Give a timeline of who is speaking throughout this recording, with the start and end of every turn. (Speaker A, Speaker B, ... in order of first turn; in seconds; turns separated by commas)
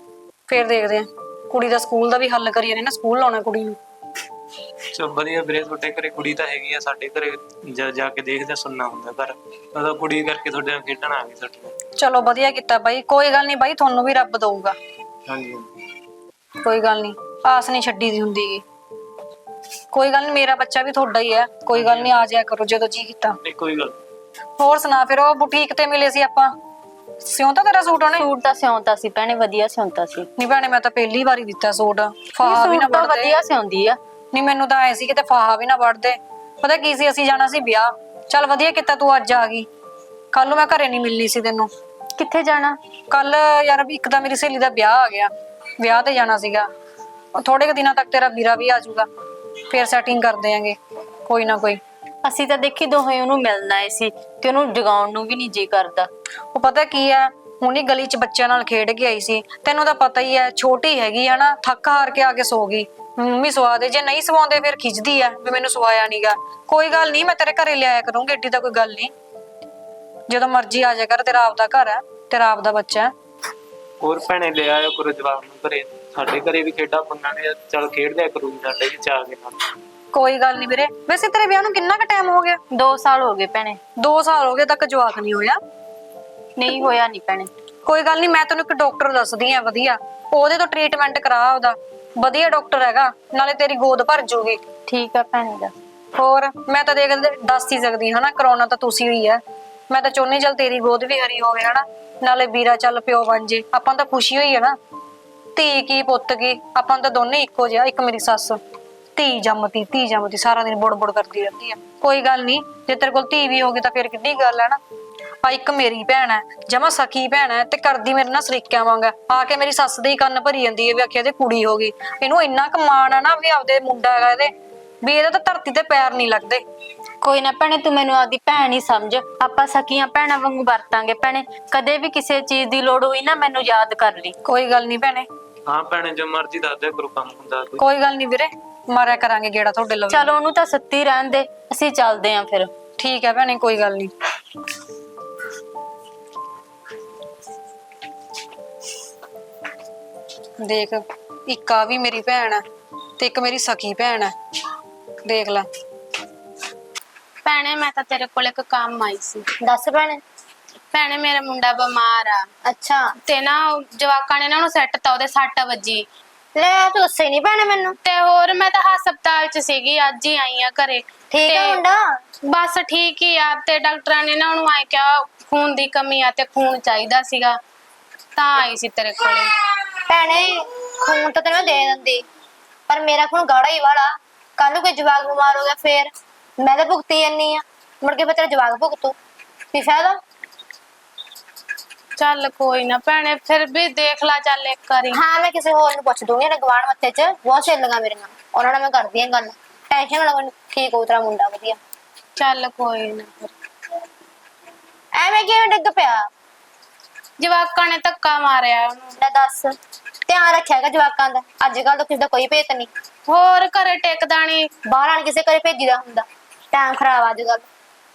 Speaker A: 0.5-3.8, Speaker B: 4.9-11.7, Speaker A: 12.0-14.7, Speaker B: 15.3-15.7, Speaker A: 16.6-18.6, Speaker A: 19.9-23.4, Speaker B: 21.7-22.1, Speaker B: 23.4-23.9, Speaker A: 24.6-26.5, Speaker A: 27.2-28.2, Speaker C: 28.1-30.3, Speaker A: 30.4-33.4, Speaker C: 32.4-34.0, Speaker A: 34.3-39.7, Speaker A: 40.3-41.7, Speaker C: 42.2-42.8, Speaker A: 43.1-46.7, Speaker A: 47.3-49.1, Speaker A: 49.7-51.8, Speaker C: 52.2-56.1, Speaker A: 56.5-69.1, Speaker A: 70.3-73.1, Speaker B: 74.0-79.5, Speaker A: 80.1-82.6, Speaker C: 82.7-83.8, Speaker A: 84.0-85.6, Speaker C: 86.5-87.5, Speaker A: 87.8-94.6, Speaker C: 94.9-95.7, Speaker A: 96.2-104.8, Speaker A: 105.5-108.6, Speaker A: 109.2-114.8, Speaker A: 115.4-124.5, Speaker A: 125.0-126.6, Speaker C: 127.2-134.3, Speaker A: 134.4-135.3, Speaker B: 135.7-137.8, Speaker A: 137.8-140.3, Speaker C: 140.1-142.7, Speaker A: 143.0-144.1, Speaker A: 150.6-152.6, Speaker A: 153.2-154.3, Speaker A: 155.2-155.7, Speaker D: 157.4-159.4, Speaker E: 159.6-160.2, Speaker D: 160.9-162.5, Speaker E: 162.6-163.1, Speaker D: 163.2-166.0, Speaker E: 166.5-168.0, Speaker D: 168.0-171.8, Speaker E: 171.3-172.2, Speaker D: 172.4-177.6, Speaker D: 178.3-179.5, Speaker E: 180.1-182.2, Speaker E: 182.9-189.1, Speaker E: 189.7-190.2, Speaker D: 192.2-195.2, Speaker E: 195.1-201.8, Speaker D: 202.4-203.5, Speaker E: 205.1-206.3, Speaker D: 207.4-209.2, Speaker E: 209.2-209.8, Speaker E: 210.3-212.9, Speaker D: 213.3-214.7, Speaker E: 214.8-217.7